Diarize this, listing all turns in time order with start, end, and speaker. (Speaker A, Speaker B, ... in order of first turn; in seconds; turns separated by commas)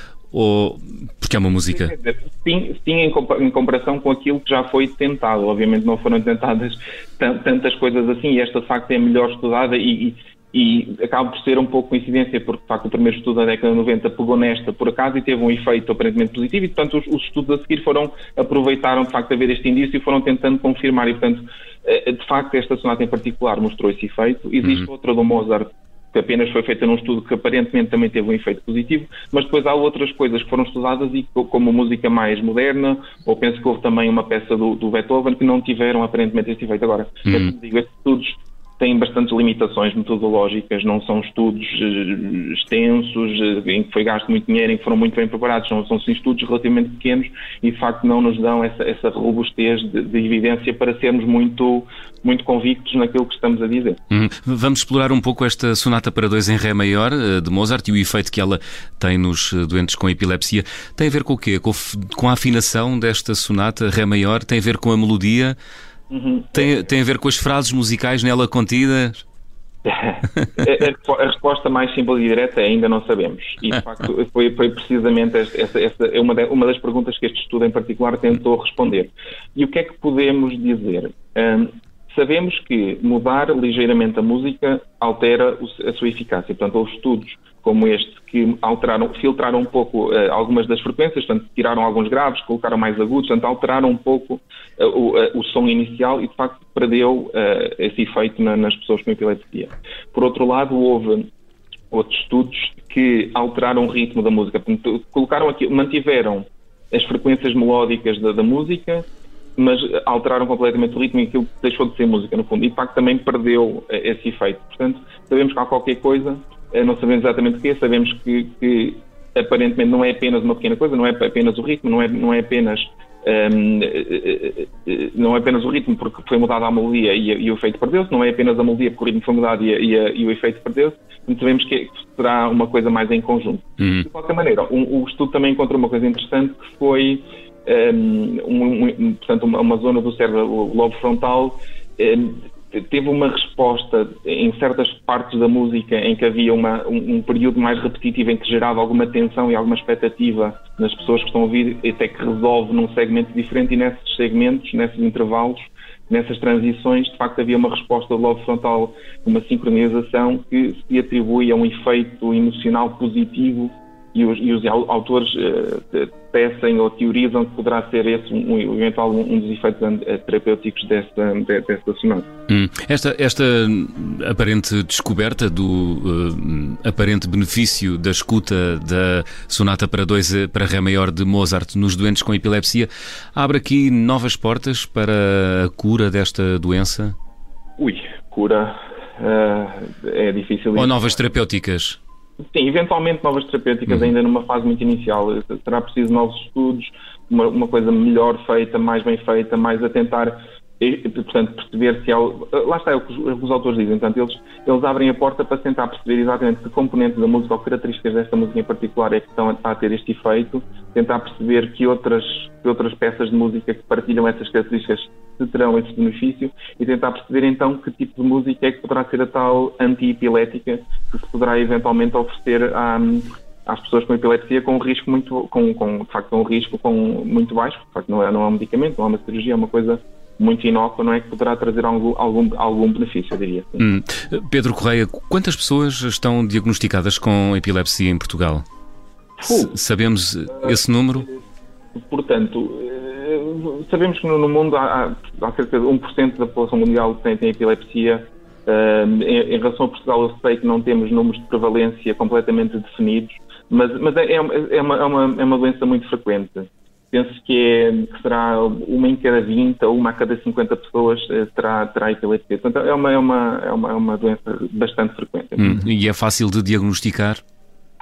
Speaker A: 0.3-1.9, Speaker B: 1.7-54.0, Speaker A: 54.1-65.6, Speaker B: 66.1-66.7, Speaker A: 66.5-69.2, Speaker B: 69.8-101.3, Speaker B: 101.9-109.0, Speaker B: 109.6-172.3, Speaker A: 133.8-134.1, Speaker A: 172.5-187.2, Speaker B: 187.8-191.2, Speaker A: 190.8-192.0, Speaker B: 192.5-233.9, Speaker A: 233.8-238.7, Speaker B: 239.4-239.7, Speaker A: 239.4-241.3, Speaker B: 242.0-265.8, Speaker A: 265.6-267.4